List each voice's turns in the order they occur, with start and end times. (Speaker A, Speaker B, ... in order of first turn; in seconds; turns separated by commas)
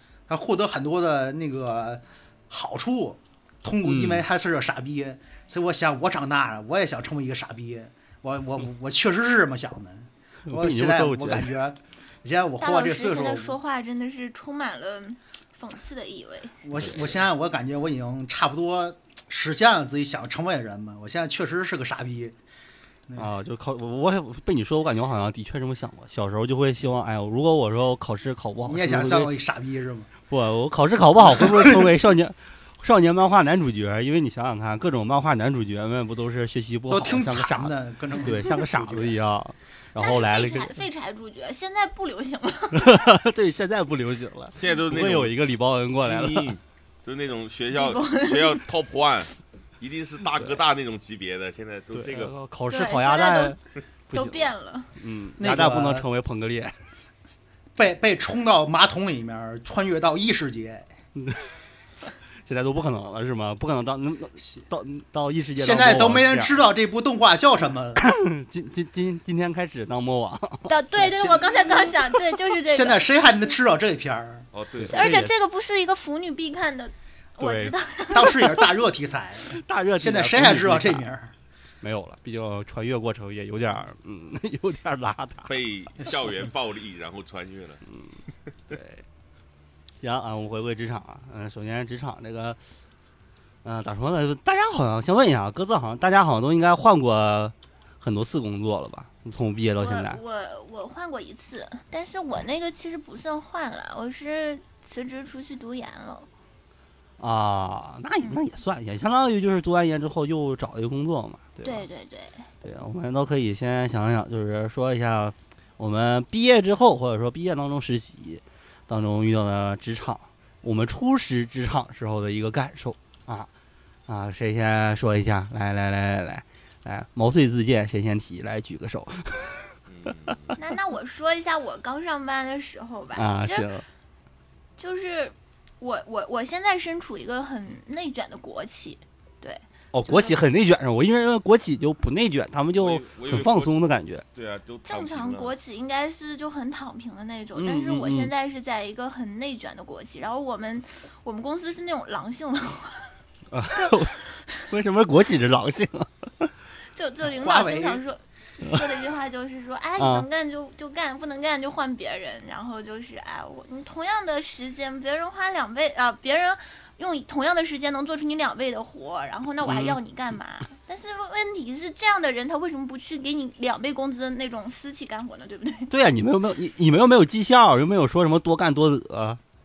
Speaker A: 0.3-13.6, Speaker B: 3.8-4.2, Speaker B: 10.5-11.5, Speaker C: 12.6-16.6, Speaker A: 16.6-22.4, Speaker B: 16.8-17.1, Speaker B: 23.2-29.3, Speaker A: 28.6-30.1, Speaker B: 30.3-40.8, Speaker A: 31.2-31.8, Speaker A: 36.9-39.2, Speaker C: 40.0-43.0, Speaker B: 42.7-46.5, Speaker D: 44.5-45.4, Speaker D: 46.0-52.3, Speaker C: 47.7-48.6, Speaker B: 50.4-50.6, Speaker B: 51.9-53.6, Speaker C: 52.7-53.6, Speaker B: 54.1-56.7, Speaker C: 54.1-54.9, Speaker A: 55.4-56.0, Speaker A: 57.8-60.9, Speaker B: 61.1-61.5, Speaker B: 62.4-66.7, Speaker A: 64.4-64.7, Speaker A: 65.6-68.0, Speaker B: 68.0-70.7, Speaker C: 70.7-73.0, Speaker A: 71.0-71.9, Speaker A: 72.7-74.5, Speaker D: 74.5-75.2, Speaker B: 74.8-75.3, Speaker C: 74.9-78.6, Speaker B: 77.4-77.7, Speaker A: 78.1-81.3, Speaker B: 79.5-81.0, Speaker B: 81.8-85.6, Speaker D: 85.5-87.8, Speaker B: 88.7-89.0, Speaker B: 90.0-92.6, Speaker B: 93.6-100.2, Speaker C: 99.8-106.3, Speaker B: 107.2-111.9, Speaker C: 111.6-112.5, Speaker B: 112.6-123.5, Speaker B: 124.1-129.7, Speaker D: 129.9-130.6, Speaker C: 130.6-133.7, Speaker B: 133.1-133.8, Speaker C: 134.8-140.4, Speaker B: 139.9-144.2, Speaker D: 142.8-143.8, Speaker D: 144.3-145.5, Speaker C: 144.8-153.1, Speaker B: 147.5-148.3, Speaker B: 153.5-154.1, Speaker C: 153.7-154.6, Speaker B: 154.7-156.5, Speaker C: 156.9-175.9, Speaker A: 157.3-158.0, Speaker B: 160.0-160.3, Speaker B: 169.6-170.0, Speaker B: 175.9-179.4